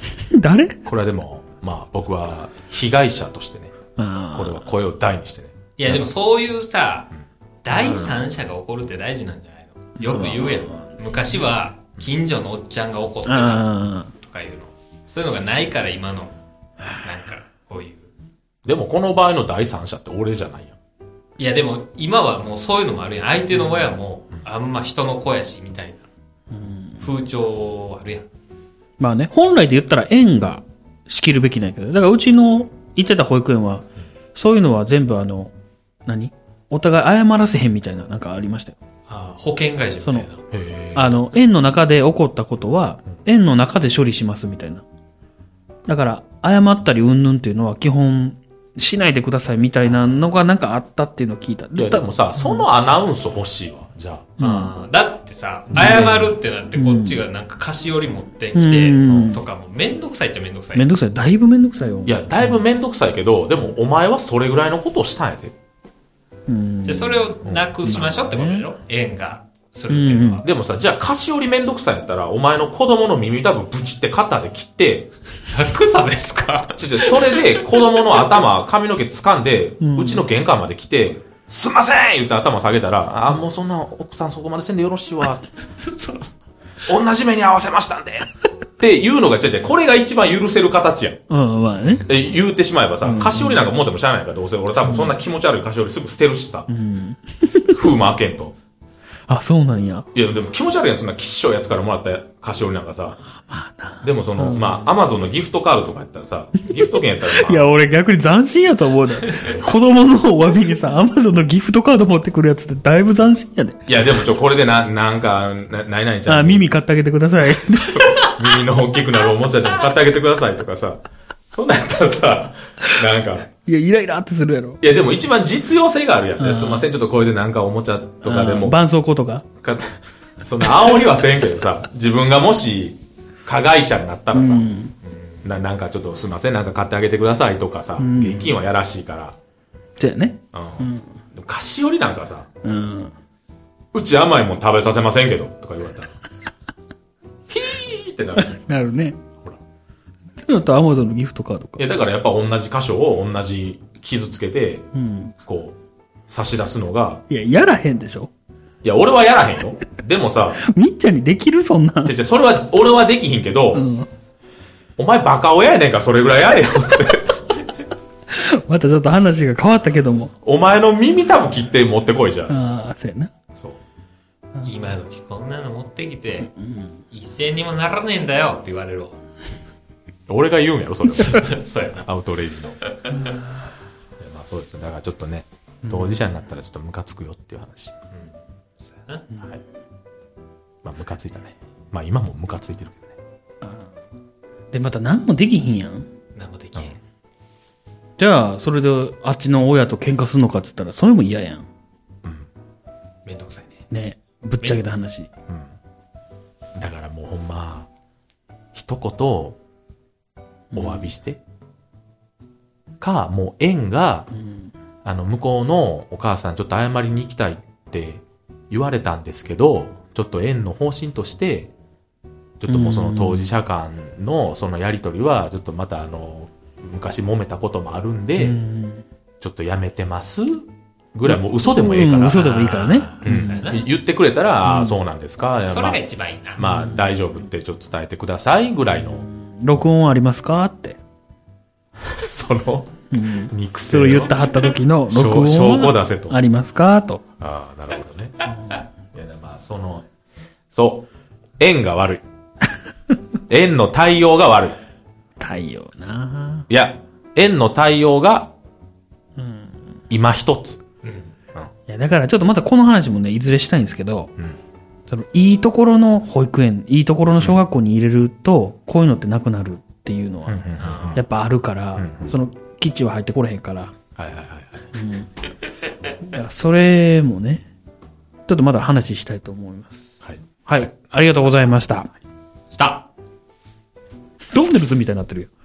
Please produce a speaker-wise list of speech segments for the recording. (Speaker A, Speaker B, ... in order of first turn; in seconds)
Speaker A: 0.2-0.8, 4.0-4.7, 7.7-8.2, 10.0-10.9, 13.2-14.1, 26.5-27.1, 29.0-35.5, 36.0-38.8, 40.0-40.3, 40.9-44.8, 45.9-52.7, 54.4-54.7, 55.7-56.1, 56.8-57.2, 58.5-59.4, 60.7-62.6, 66.5-67.3, 67.8-68.6, 69.9-70.4, 79.8-80.2, 91.3-92.1, 93.0-93.7, 94.8-95.2, 96.7-97.9, 99.3-100.1, 103.3-104.9, 106.7-113.9, 116.2-118.3, 123.7-124.8, 126.4-126.9, 128.2-129.4, 134.3-134.9, 138.0-138.5, 140.0-141.1, 142.6-143.1, 148.4-149.2, 150.4-151.8, 154.9-155.3, 157.3-158.3, 160.6-162.2, 163.7-164.1, 168.3-170.3, 172.5-173.3, 176.5-177.0, 185.8-186.2, 193.6-193.9, 194.7-196.1, 198.2-201.7, 203.9-205.3, 210.7-211.1, 214.3-214.7, 222.7-223.5, 228.4-229.0, 231.3-233.6, 234.6-235.0, 236.6-237.1, 239.0-241.0, 243.1-247.2, 248.5-248.8, 255.4-256.7, 259.4-259.8, 261.9-264.3, 265.1-270.6, 271.1-273.9, 274.9-275.3, 276.2-277.7, 278.5-280.0, 280.7-282.1, 284.5-285.5
Speaker B: 0.8-3.7, 4.3-6.0, 18.6-20.8, 40.5-41.2, 51.8-54.3, 55.7-56.3, 62.0-65.5, 67.4-68.0, 70.4-75.1, 76.8-85.5, 86.9-91.2, 92.0-96.7, 97.7-98.5, 100.1-103.2, 104.0-107.7, 109.3-109.7, 113.9-116.7, 117.8-123.5, 124.8-128.8, 129.6-134.7, 135.4-139.3, 140.5-142.5, 143.9-146.2, 147.5-148.6, 151.8-154.9, 155.4-155.8, 156.3-157.2, 158.8-160.6, 162.0-163.8, 165.0-167.4, 170.4-172.6, 173.5-173.8, 180.3-182.8, 184.2-187.9, 190.8-193.1, 205.5-205.7, 206.8-207.9, 208.7-209.6, 210.7-211.4, 213.0-214.3, 215.0-221.7, 222.6-228.6, 229.4-232.7, 233.2-236.0, 236.6-239.2, 242.0-246.4, 247.4-248.5, 249.1-250.1, 250.7-251.1, 251.6-252.2, 253.5-254.8, 256.7-258.5, 260.1-260.8, 270.5-271.2, 272.0-272.3, 274.2-274.9, 280.2-281.9
Speaker C: 5.8-7.1, 7.6-16.3, 17.0-18.1, 21.4-26.1, 27.0-28.3, 39.1-40.4, 54.4-60.9, 66.8-70.5, 75.4-77.6, 85.8-86.3, 135.0-135.5, 174.6-176.5, 177.1-179.2, 181.1-182.1, 182.9-183.3, 188.1-189.3, 196.3-197.0, 203.2-203.9, 232.3-233.9, 235.7-236.6, 261.0-261.3, 270.8-271.2, 282.7-283.1